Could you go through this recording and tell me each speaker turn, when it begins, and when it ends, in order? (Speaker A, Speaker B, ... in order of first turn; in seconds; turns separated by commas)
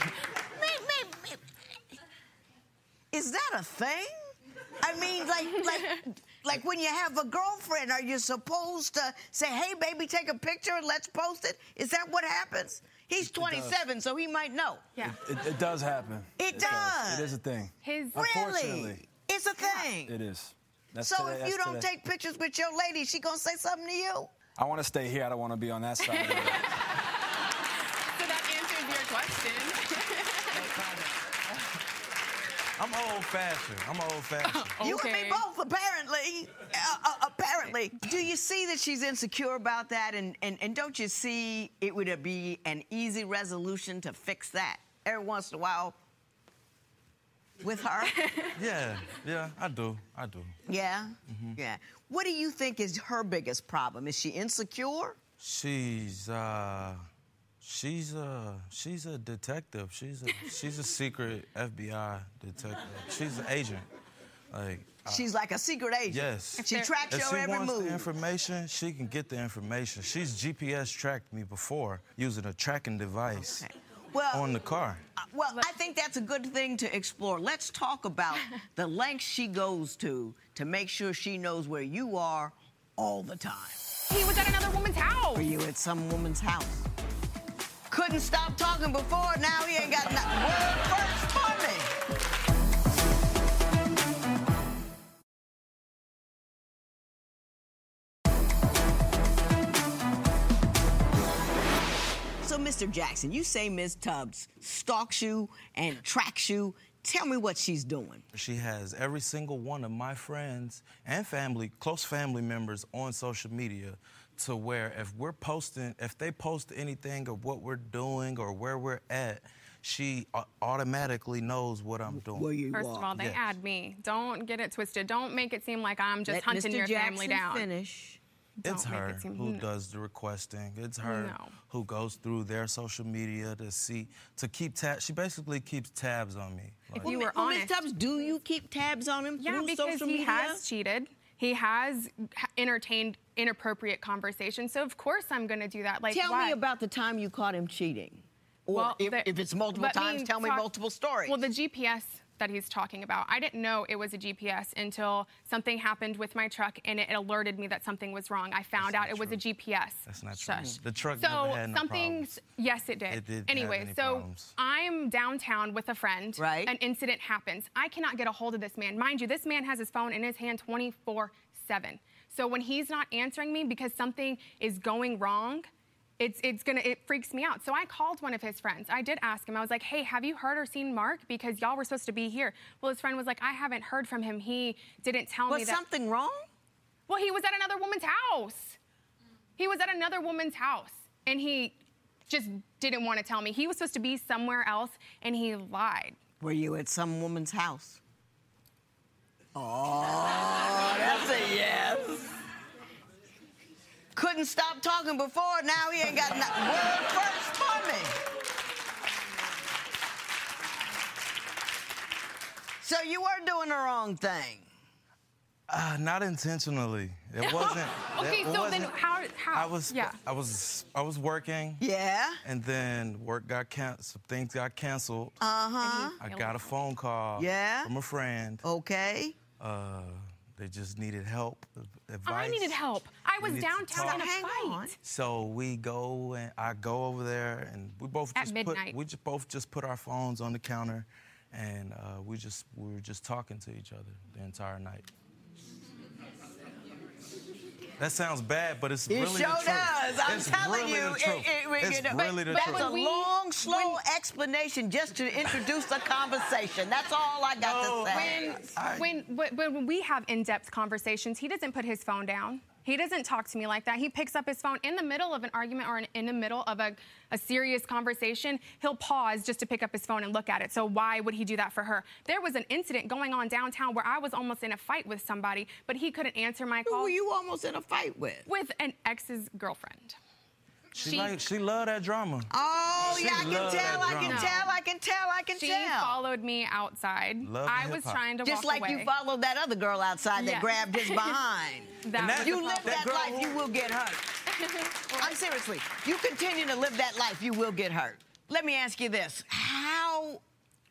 Speaker A: 0.5-1.4, Speaker A: 3.1-14.9, Speaker B: 13.3-13.7, Speaker B: 15.0-19.0, Speaker A: 16.4-17.4, Speaker C: 17.8-18.2, Speaker A: 18.1-20.2, Speaker B: 19.6-21.9, Speaker A: 21.0-24.3, Speaker B: 24.6-26.8, Speaker C: 26.0-27.1, Speaker C: 28.1-30.8, Speaker D: 30.5-31.6, Speaker D: 32.8-34.8, Speaker C: 34.4-35.4, Speaker A: 34.8-46.0, Speaker A: 47.6-48.2, Speaker C: 48.1-48.5, Speaker D: 48.5-50.5, Speaker A: 50.7-55.2, Speaker D: 51.3-51.6, Speaker D: 55.4-57.0, Speaker D: 57.6-63.9, Speaker D: 64.5-65.2, Speaker A: 65.1-68.1, Speaker D: 66.1-73.7, Speaker C: 66.6-66.9, Speaker A: 73.4-74.5, Speaker D: 74.3-75.0, Speaker A: 75.2-83.8, Speaker C: 84.1-85.5, Speaker A: 85.3-86.9, Speaker A: 87.9-91.9, Speaker A: 102.4-108.2, Speaker D: 108.3-122.5, Speaker A: 122.1-123.1, Speaker C: 122.7-127.7, Speaker D: 123.1-123.5, Speaker A: 126.3-128.2, Speaker C: 128.6-129.6, Speaker D: 128.6-137.1, Speaker C: 131.0-131.6, Speaker A: 137.0-140.6, Speaker C: 137.0-137.8, Speaker C: 139.4-146.6, Speaker A: 146.1-151.4, Speaker C: 148.7-150.7, Speaker C: 151.2-175.7, Speaker D: 158.8-159.4, Speaker D: 160.1-162.4, Speaker D: 163.1-164.5, Speaker A: 166.4-166.7, Speaker C: 176.2-185.8, Speaker A: 185.5-186.4, Speaker C: 187.1-188.8, Speaker C: 189.6-191.8, Speaker C: 192.3-196.2, Speaker A: 196.4-198.0, Speaker A: 199.5-202.4, Speaker A: 204.1-208.2, Speaker A: 212.8-214.7, Speaker D: 215.7-218.9, Speaker C: 217.4-220.2, Speaker D: 219.5-221.8, Speaker A: 221.8-222.4, Speaker D: 222.4-225.4, Speaker A: 225.4-226.2, Speaker C: 225.8-226.8, Speaker D: 226.2-228.6, Speaker A: 227.3-227.9, Speaker A: 228.6-229.4, Speaker D: 229.6-232.8, Speaker C: 232.2-234.9, Speaker D: 233.4-234.3, Speaker A: 233.9-234.9, Speaker D: 235.0-245.1, Speaker C: 238.3-239.0, Speaker D: 248.0-252.9, Speaker A: 249.1-258.6, Speaker C: 252.5-254.0, Speaker D: 257.6-259.1, Speaker C: 258.1-277.1, Speaker A: 276.8-278.5, Speaker C: 278.5-280.2, Speaker D: 280.9-282.5, Speaker C: 281.0-281.4, Speaker A: 282.5-286.2, Speaker D: 283.0-284.7, Speaker C: 283.9-284.7, Speaker C: 285.5-289.1, Speaker D: 287.4-288.2, Speaker A: 288.4-294.3, Speaker C: 290.3-291.4, Speaker C: 292.0-293.3, Speaker D: 292.1-293.7, Speaker C: 294.5-295.4, Speaker A: 295.1-300.4